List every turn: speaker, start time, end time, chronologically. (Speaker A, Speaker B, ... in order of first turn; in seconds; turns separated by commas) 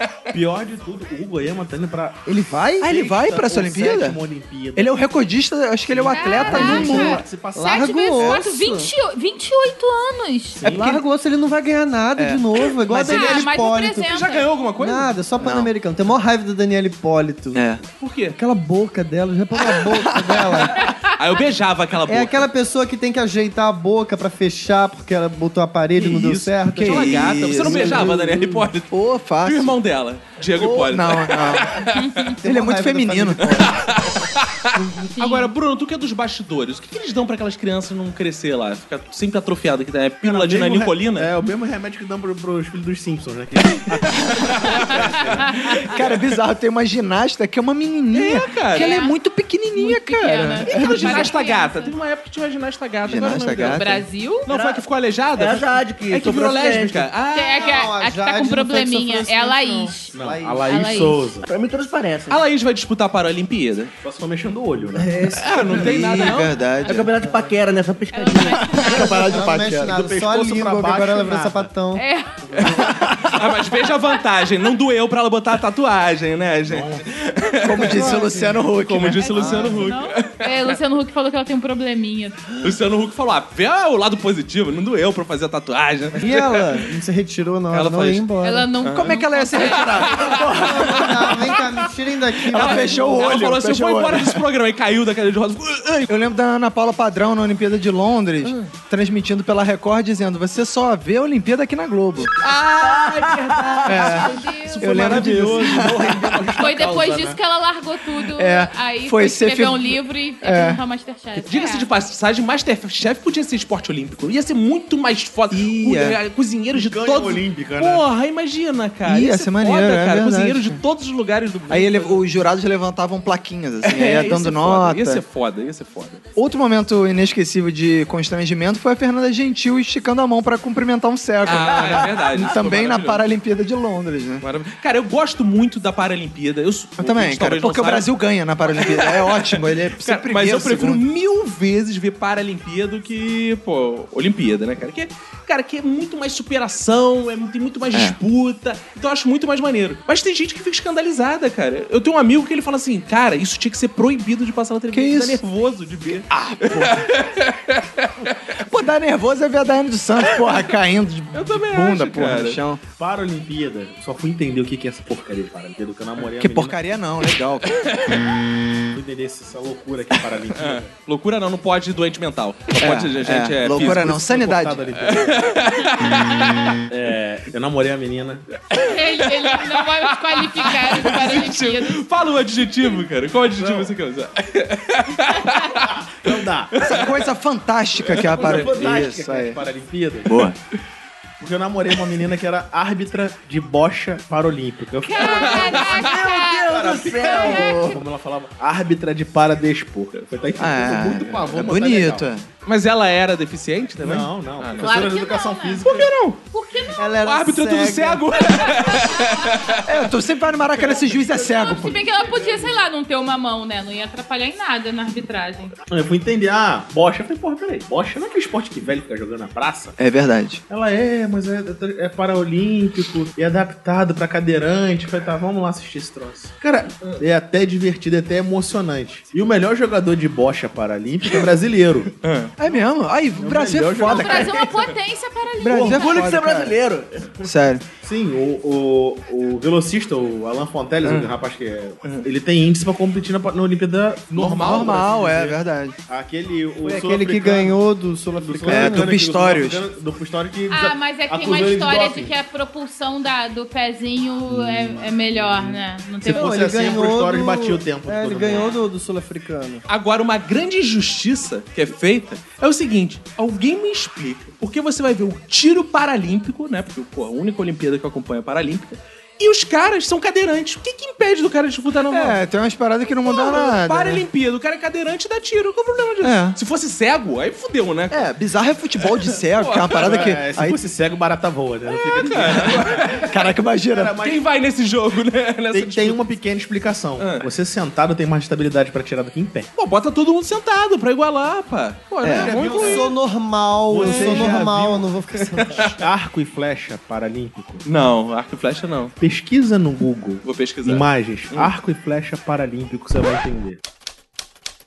Speaker A: 0.3-2.2, Speaker B: 2.2-2.9, Speaker C: 2.8-4.2, Speaker A: 2.8-5.0, Speaker C: 4.7-7.2, Speaker A: 5.9-7.9, Speaker D: 6.1-10.6, Speaker B: 6.3-8.9, Speaker C: 8.2-8.4, Speaker A: 10.6-11.0, Speaker C: 10.6-11.0, Speaker B: 10.6-14.1, Speaker C: 12.2-13.4, Speaker D: 13.0-14.5, Speaker E: 14.1-15.1, Speaker B: 14.8-17.6, Speaker C: 15.4-15.7, Speaker C: 17.5-17.8, Speaker E: 18.0-18.4, Speaker B: 18.4-20.9, Speaker C: 19.5-20.7, Speaker D: 20.8-21.1, Speaker E: 21.1-22.5, Speaker B: 22.1-28.6, Speaker E: 25.9-32.2, Speaker C: 26.7-29.8, Speaker C: 30.5-31.9, Speaker D: 31.9-32.4, Speaker B: 32.4-33.7, Speaker C: 32.4-33.7, Speaker E: 33.5-41.3, Speaker D: 35.1-35.5, Speaker A: 40.2-46.0, Speaker E: 44.5-44.9, Speaker C: 45.6-51.3, Speaker E: 48.1-49.0, Speaker D: 48.7-49.2, Speaker D: 49.7-51.9, Speaker E: 50.6-54.0, Speaker C: 53.0-54.0, Speaker D: 53.6-54.5, Speaker E: 54.5-57.7, Speaker F: 54.5-54.8, Speaker F: 55.4-57.1, Speaker D: 57.3-60.1, Speaker B: 57.5-60.8, Speaker A: 60.1-61.5, Speaker D: 60.7-61.2, Speaker F: 61.5-62.4, Speaker E: 62.3-63.9, Speaker A: 64.0-65.3, Speaker B: 65.0-65.8, Speaker E: 65.3-66.6, Speaker C: 65.5-67.1, Speaker F: 66.8-68.8, Speaker B: 67.2-67.5, Speaker D: 68.1-69.3, Speaker C: 68.6-70.0, Speaker B: 68.8-73.1, Speaker A: 69.1-71.7, Speaker D: 71.9-72.3, Speaker C: 72.7-73.4, Speaker E: 73.3-80.8, Speaker D: 73.8-74.3, Speaker A: 76.7-77.0, Speaker C: 77.6-79.8, Speaker B: 77.8-78.6, Speaker D: 79.2-82.5, Speaker E: 82.6-86.9, Speaker B: 86.1-88.7, Speaker E: 87.7-88.2, Speaker D: 88.4-90.4, Speaker E: 88.8-91.8, Speaker C: 88.9-91.5, Speaker B: 90.3-93.3, Speaker E: 92.4-96.1, Speaker C: 92.5-94.4, Speaker C: 96.1-102.3, Speaker E: 98.4-98.7, Speaker E: 102.4-106.4, Speaker F: 102.8-103.9, Speaker C: 103.8-106.4, Speaker D: 104.1-104.8, Speaker A: 104.9-107.4, Speaker D: 106.5-111.9, Speaker C: 108.2-110.8, Speaker E: 111.4-122.2, Speaker C: 115.5-116.2, Speaker A: 116.7-118.0, Speaker C: 119.0-120.8, Speaker C: 121.7-125.2, Speaker E: 123.8-126.2, Speaker C: 126.3-134.4, Speaker E: 131.4-133.2, Speaker E: 134.4-158.4, Speaker C: 137.0-141.0, Speaker C: 147.9-148.2, Speaker C: 154.9-155.4, Speaker C: 156.3-157.1, Speaker C: 158.6-162.8, Speaker E: 161.3-162.6, Speaker A: 163.0-166.7, Speaker C: 166.3-167.8, Speaker E: 167.7-168.3, Speaker A: 168.9-170.9, Speaker E: 170.5-174.1, Speaker C: 172.8-174.8, Speaker A: 173.7-175.4, Speaker E: 175.0-176.8, Speaker A: 176.9-178.4, Speaker E: 178.7-187.2, Speaker D: 178.7-182.0, Speaker A: 183.6-183.9, Speaker D: 185.3-185.7, Speaker A: 185.9-186.7, Speaker C: 186.8-189.6, Speaker E: 188.0-188.7, Speaker A: 188.3-190.3, Speaker C: 190.2-190.6, Speaker A: 191.4-196.1, Speaker D: 195.0-197.9, Speaker E: 195.2-195.9, Speaker F: 195.3-197.8, Speaker A: 196.7-202.2, Speaker C: 197.5-198.0, Speaker C: 200.6-202.5, Speaker E: 202.6-205.0, Speaker A: 204.0-206.1, Speaker D: 204.8-207.2, Speaker E: 205.8-206.4, Speaker B: 206.9-208.3, Speaker E: 207.2-209.9, Speaker D: 208.6-209.8, Speaker C: 209.8-212.1, Speaker D: 211.4-215.7, Speaker A: 212.1-212.8, Speaker A: 215.9-219.9, Speaker C: 220.0-220.6, Speaker A: 220.7-232.1, Speaker E: 232.2-232.5, Speaker C: 232.6-234.5, Speaker A: 233.3-234.6, Speaker D: 234.0-236.3, Speaker C: 235.6-236.7, Speaker F: 235.7-237.5, Speaker C: 237.4-237.8, Speaker A: 238.0-245.4, Speaker E: 244.3-245.6, Speaker C: 244.6-245.9, Speaker A: 246.1-247.8, Speaker B: 246.8-249.1, Speaker A: 248.3-252.3, Speaker C: 248.7-249.8, Speaker D: 250.7-256.6, Speaker A: 254.6-258.8, Speaker B: 256.2-259.8, Speaker E: 259.9-272.4, Speaker C: 272.1-274.2, Speaker E: 273.2-278.3, Speaker C: 276.2-276.6, Speaker C: 278.1-280.8, Speaker E: 279.2-280.2, Speaker A: 280.0-284.4, Speaker E: 281.9-283.3, Speaker C: 282.5-284.1, Speaker E: 284.2-286.2, Speaker A: 285.7-289.7, Speaker E: 287.2-287.5, Speaker E: 289.8-293.1, Speaker C: 292.2-292.6, Speaker A: 292.3-293.1, Speaker B: 292.7-296.0, Speaker A: 293.9-295.1, Speaker E: 294.0-294.7, Speaker E: 295.6-295.9, Speaker A: 295.9-297.9, Speaker E: 297.8-299.1, Speaker A: 299.2-303.8, Speaker E: 300.4-301.7